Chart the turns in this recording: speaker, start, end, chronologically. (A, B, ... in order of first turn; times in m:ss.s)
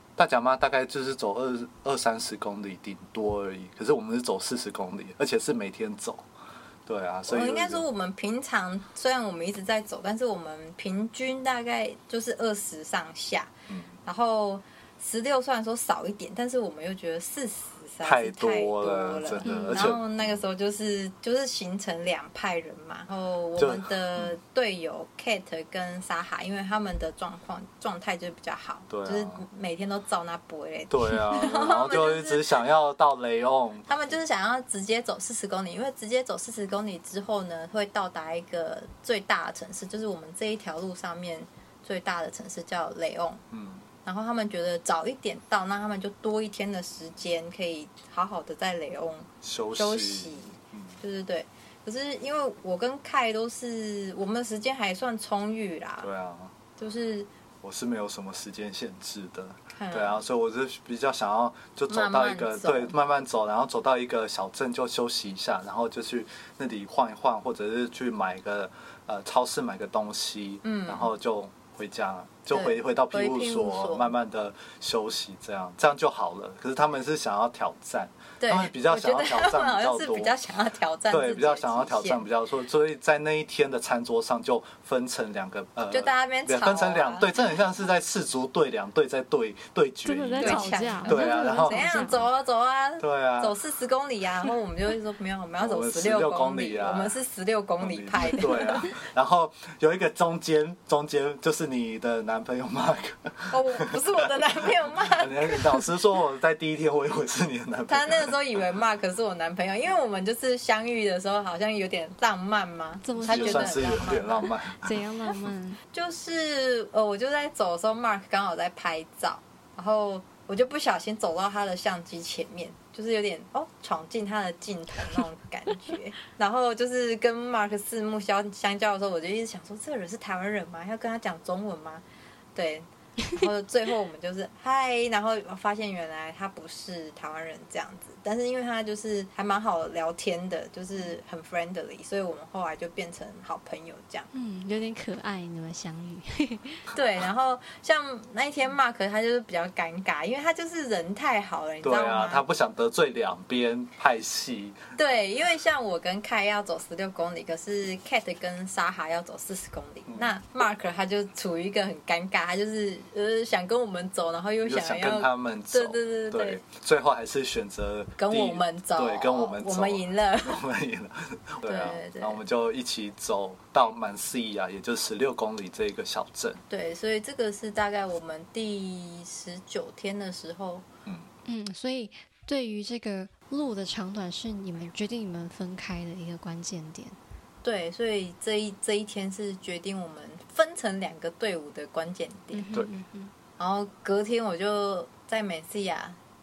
0:00.2-0:06.2 A
0:06.8-0:07.8 A
0:07.3-0:13.5 B
0:13.7-0:14.0 A
0:14.0-0:32.6 B
0:18.0-0:20.4 A
0:19.4-0:19.9 C
0:23.6-0:24.3 A
0:28.9-0:29.4 A
0:30.9-0:33.9 A
0:33.9-0:43.4 B
0:43.5-0:43.8 A
0:44.0-0:56.1 B
0:49.4-0:51.0 A
0:56.0-0:56.5 A
0:56.8-0:57.3 B
0:57.6-1:20.3 A
0:59.7-1:00.2 B
1:01.9-1:02.9 B
1:10.6-1:11.1 B
1:12.5-1:14.1 B
1:18.4-1:22.2 B
1:21.1-1:32.2 A
1:25.9-1:27.3 B
1:30.0-1:32.2 C
1:30.4-1:38.9 B
1:33.0-1:33.5 A
1:35.6-1:37.2 A
1:37.8-1:44.2 A
1:43.5-1:45.6 B
1:45.0-1:48.3 A
1:47.9-1:54.4 B
1:53.0-1:55.8 C
1:53.2-1:55.0 A
1:55.9-2:12.0 B
2:12.5-2:24.3 B
2:24.3-2:26.8 C
2:26.9-2:32.4 B
2:31.8-2:34.9 A
2:35.0-2:46.6 B
2:40.1-2:40.3 A
2:44.6-2:56.6 A
2:48.2-2:50.6 B
2:51.6-2:52.4 B
2:56.7-3:00.8 B
3:01.4-3:07.2 C
3:07.6-3:12.7 B
3:12.5-3:13.3 C
3:13.6-3:16.2 B